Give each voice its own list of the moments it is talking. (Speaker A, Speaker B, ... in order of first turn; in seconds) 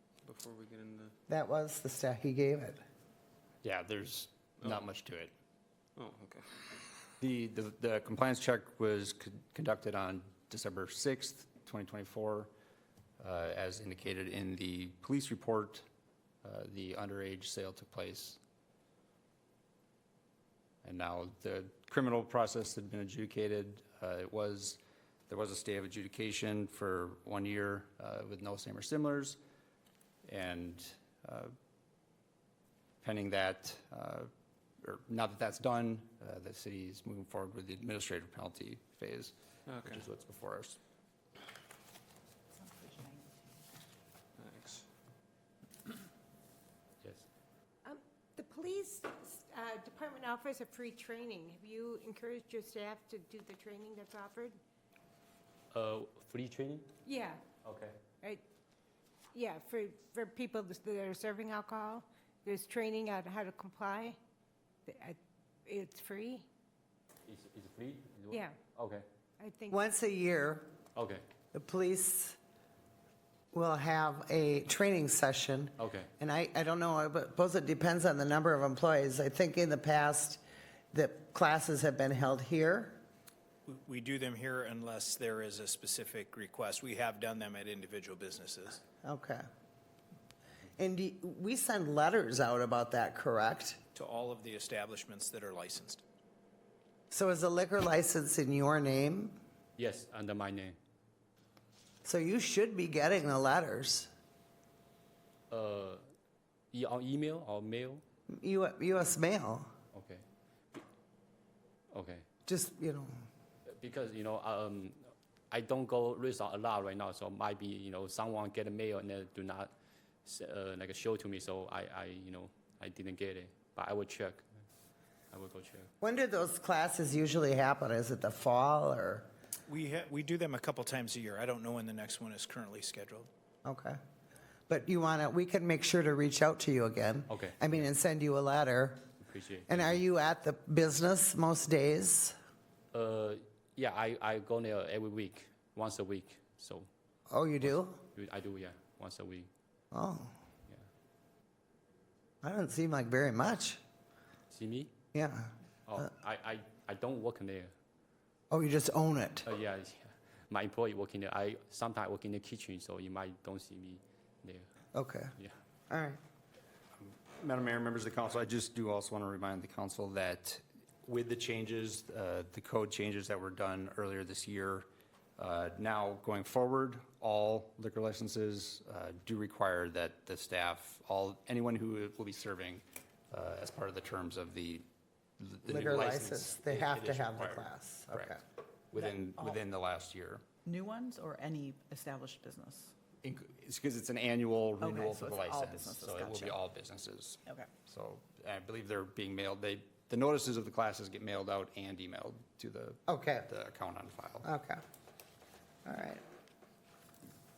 Speaker A: 0.2-1.1, 4.6-4.9, 6.0-6.9, 39.7-40.0, 44.4-44.9
Speaker B: 1.3-2.8, 69.7-70.7, 71.5-72.4, 73.5-80.4, 80.9-83.0, 89.0-89.4, 90.8-93.8, 97.1-99.4, 102.0-104.1, 108.3-109.7, 112.5-113.2, 126.0-129.3, 133.7-134.0, 134.7-139.0, 139.7-142.3, 147.3-148.0, 149.9-150.3, 152.4-153.8, 155.1-155.5, 158.5-159.5, 164.9-165.3, 165.9-166.2, 185.7-188.4, 203.1-203.5, 204.4-204.8, 205.9-206.2
Speaker C: 3.6-5.3, 7.2-12.5, 13.2-15.8, 16.4-18.4, 20.8-29.4, 30.2-31.5, 33.0-34.3, 34.8-40.8, 167.0-174.9, 175.4-184.9, 185.4-188.4, 188.9-190.4, 193.2-204.5
Speaker D: 42.5-43.4, 189.0-189.6, 190.7-192.9, 194.8-196.6
Speaker E: 47.9-54.6, 57.1-57.4, 59.3-64.2, 64.9-66.5, 68.3-68.6, 69.4-69.8
Speaker F: 55.7-56.9, 57.6-58.0, 67.3-69.0, 71.0-71.2, 75.8-76.1, 99.8-100.8, 105.5-106.0, 106.7-108.0, 109.9-110.8, 111.9-112.2, 113.7-119.7, 120.3-124.4, 125.3-125.9, 137.3-137.9, 139.2-140.0, 142.9-146.9, 147.6-149.5, 154.5-154.9, 155.9-157.7, 159.4-164.7
Speaker G: 83.7-88.8, 94.0-96.0, 129.7-133.3